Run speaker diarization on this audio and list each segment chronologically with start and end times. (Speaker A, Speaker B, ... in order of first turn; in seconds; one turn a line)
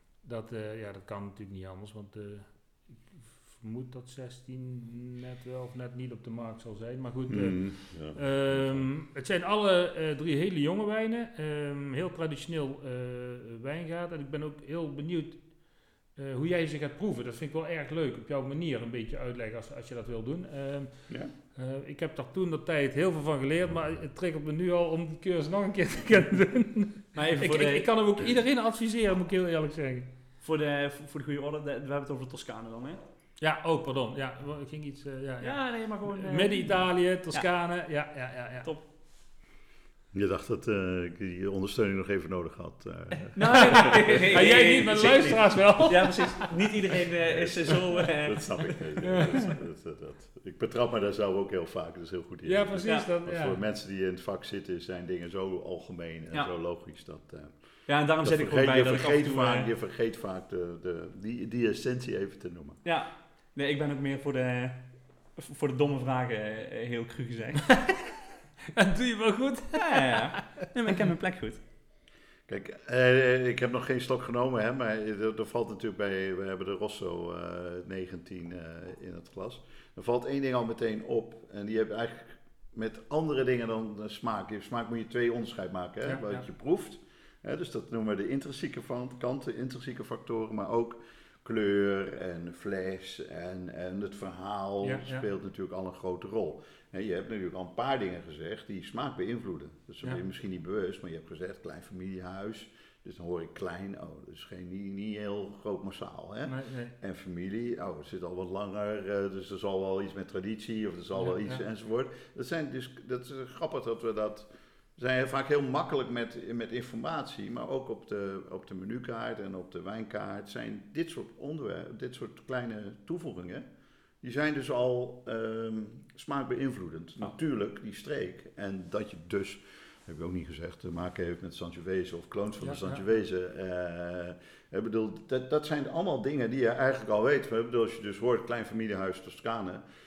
Speaker A: 0.2-15.5
Speaker B: 7.3-8.9
Speaker A: 16.1-30.1
Speaker C: 27.1-27.9
Speaker C: 30.4-33.0
Speaker A: 33.4-38.7
Speaker C: 35.4-37.5
Speaker B: 40.1-44.4
Speaker C: 43.3-49.5
Speaker A: 43.5-46.5
Speaker B: 47.2-57.5
Speaker A: 52.5-53.6
Speaker C: 52.8-53.1
Speaker C: 57.9-59.7
Speaker B: 58.2-62.8
Speaker C: 62.8-67.9
Speaker A: 68.7-70.5
Speaker C: 69.7-71.6
Speaker B: 72.5-123.6
Speaker A: 86.0-86.4
Speaker A: 94.8-95.2
Speaker A: 106.4-106.9
Speaker A: 111.2-111.6
Speaker B: 124.2-139.8
Speaker A: 132.6-133.0